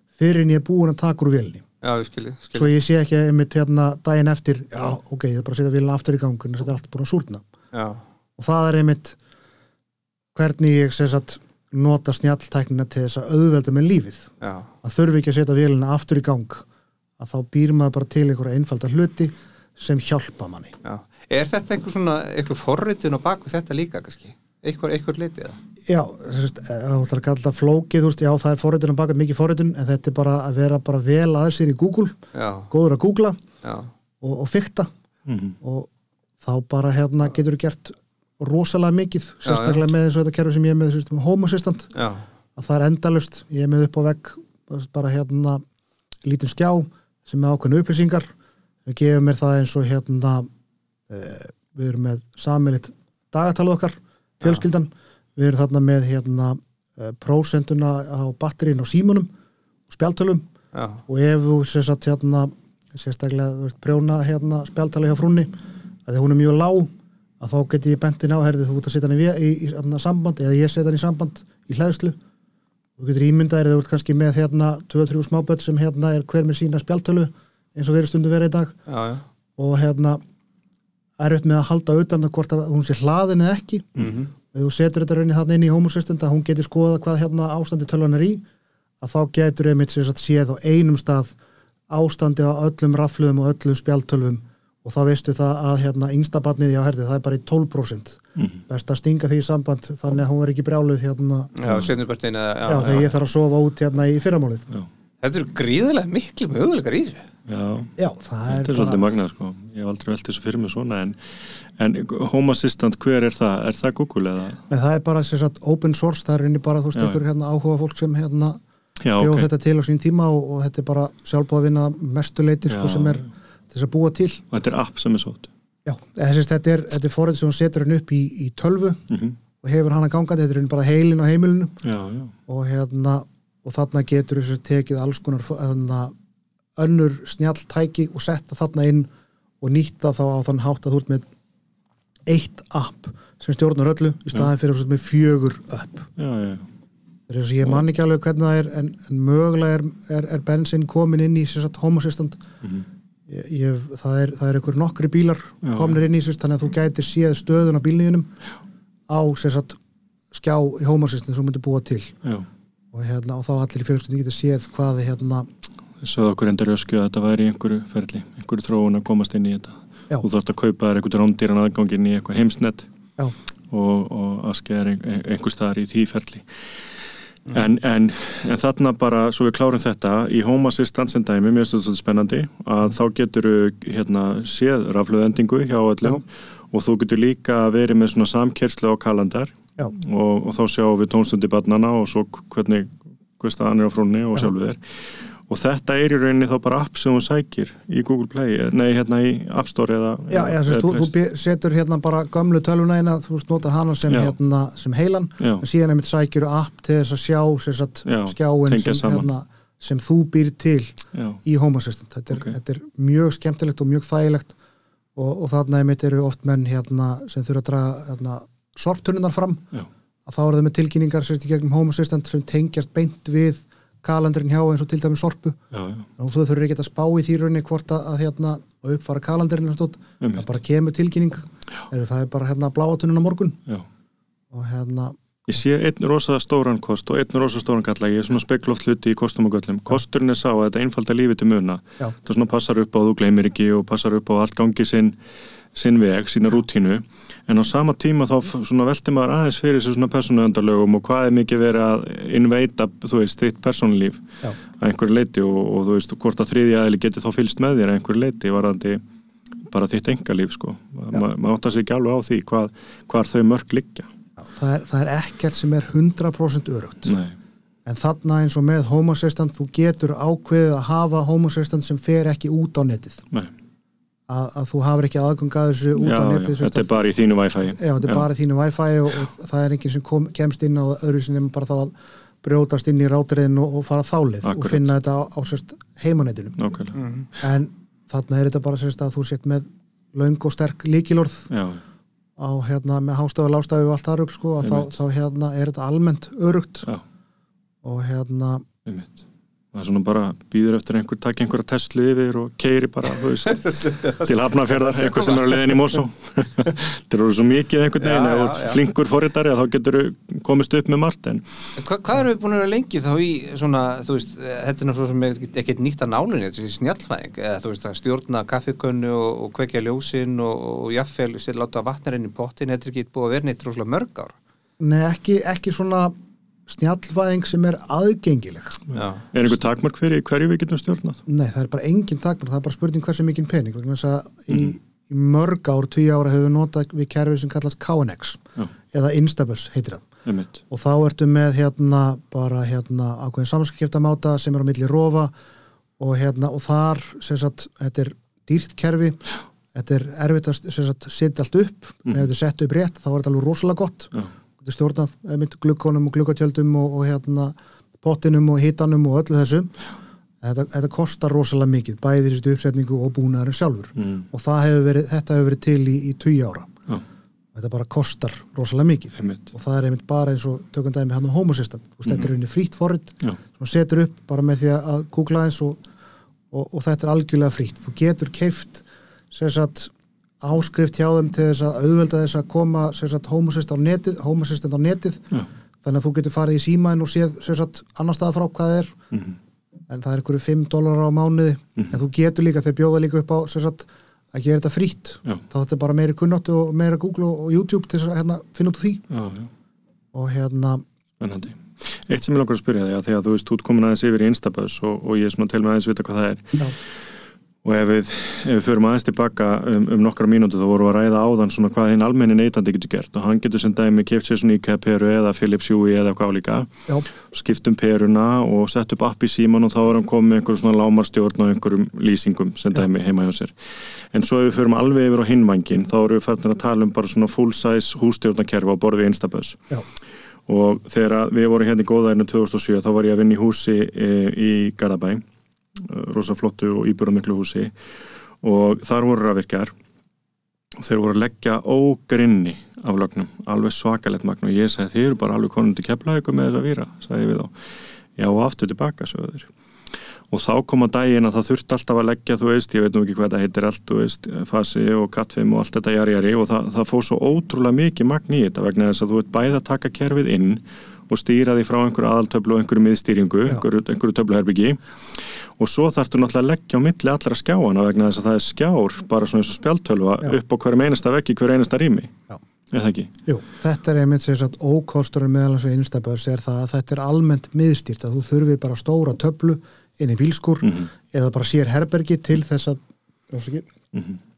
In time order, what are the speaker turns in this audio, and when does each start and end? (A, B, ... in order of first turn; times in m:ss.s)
0:00.2-0:01.6 A
0:01.8-0:02.7 B
0:02.6-0:07.4 A
0:07.7-0:08.0 B
0:08.4-0:09.2 A
0:10.4-0:14.3 A
0:14.4-0:14.7 B
0:14.8-0:16.6 A
0:17.2-0:20.7 A
0:20.8-0:25.6 B
0:25.9-0:32.2 A
0:32.3-0:32.7 B
0:32.7-0:33.4 A
0:33.6-0:33.9 B
0:34.2-0:34.9 A
0:35.3-0:35.6 C
0:35.6-0:35.9 A
0:36.4-0:41.9 A
0:39.4-0:39.8 B
0:42.0-0:42.2 B
0:42.6-0:45.6 A
0:46.2-0:48.3 A
0:48.9-0:50.5 A
0:51.1-0:59.3 A
0:59.9-1:00.5 A
1:00.7-1:01.0 B
1:01.1-1:05.6 A
1:06.1-1:12.2 A
1:13.0-1:18.8 A
1:18.9-1:19.2 B
1:19.6-1:20.2 A
1:21.2-1:28.4 A
1:24.0-1:24.3 B
1:29.0-1:31.3 A
1:31.9-1:41.5 A
1:38.4-1:38.6 C
1:41.6-1:43.1 B
1:42.7-1:44.7 A
1:45.2-1:47.2 B
1:47.5-1:47.9 C
1:48.0-1:49.1 A
1:48.5-1:51.2 C
1:51.8-1:54.6 C
1:54.7-1:58.6 A
1:57.0-1:57.2 C
1:59.0-1:59.5 C
1:59.2-2:04.4 A
2:02.7-2:03.2 C
2:04.5-2:05.5 C
2:05.8-2:09.0 A
2:09.1-2:09.4 C
2:09.6-2:11.8 A
2:11.8-2:12.3 C
2:12.5-2:16.1 A
2:16.8-2:19.1 A
2:19.6-2:21.3 A
2:22.3-2:26.1 A
2:26.2-2:26.7 C
2:27.3-2:32.4 A
2:33.3-2:38.3 A
2:35.6-2:36.0 C
2:39.1-2:39.8 A
2:40.3-2:42.2 A
2:42.9-2:45.5 A
2:46.0-2:52.9 C
2:53.7-2:56.4 C
2:57.5-3:14.8 C
3:15.5-3:21.1 C
3:20.3-3:34.5 A
3:24.1-3:24.4 C
3:28.1-3:29.3 C
3:31.2-3:31.4 C
3:35.2-3:39.6 A
3:40.3-3:45.6 A
3:45.7-3:46.1 C
3:46.2-3:53.6 A
3:50.2-3:50.5 C
3:54.5-3:55.2 A
3:55.5-4:05.2 C
4:05.8-4:14.3 C
4:14.8-4:19.0 C
4:19.7-4:24.1 C
4:24.4-4:27.2 A
4:27.1-4:27.4 C
4:27.9-4:33.2 A
4:34.3-4:36.9 A
4:36.0-4:38.3 C
4:37.7-4:46.6 A
4:44.4-4:44.8 C
4:46.6-4:47.0 C
4:47.0-4:47.3 B
4:47.4-4:51.5 A
4:51.5-4:51.8 C
4:52.4-4:56.9 A
4:54.6-4:54.9 C
4:57.8-4:58.7 A
4:58.9-4:59.2 C
4:59.7-5:11.4 C
5:03.4-5:05.7 B
5:08.0-5:08.8 B
5:11.8-5:24.3 B
5:24.8-5:26.1 A
5:26.7-5:28.8 A
5:28.9-5:31.2 C
5:28.9-5:29.2 B
5:31.3-5:40.1 A
5:40.3-5:40.6 C
5:40.7-5:45.3 A
5:46.0-5:49.2 A
5:49.7-5:59.7 A
6:00.4-6:06.7 A
6:04.0-6:04.2 C
6:07.5-6:15.8 A
6:09.2-6:09.5 C
6:16.5-6:25.3 A
6:25.8-6:29.0 A
6:29.9-6:39.0 A
6:39.1-6:39.5 C
6:40.1-6:40.8 A
6:41.2-6:46.7 C
6:47.6-6:56.8 C
6:57.3-7:03.5 C
7:04.1-7:09.7 C
7:10.5-7:15.2 C
7:15.8-7:17.7 C
7:18.4-7:19.7 C
7:20.8-7:27.5 C
7:28.2-7:29.5 C
7:30.3-7:52.1 C
7:52.7-7:53.1 C
7:53.3-8:03.7 A
8:00.6-8:00.9 C
8:03.9-8:04.2 C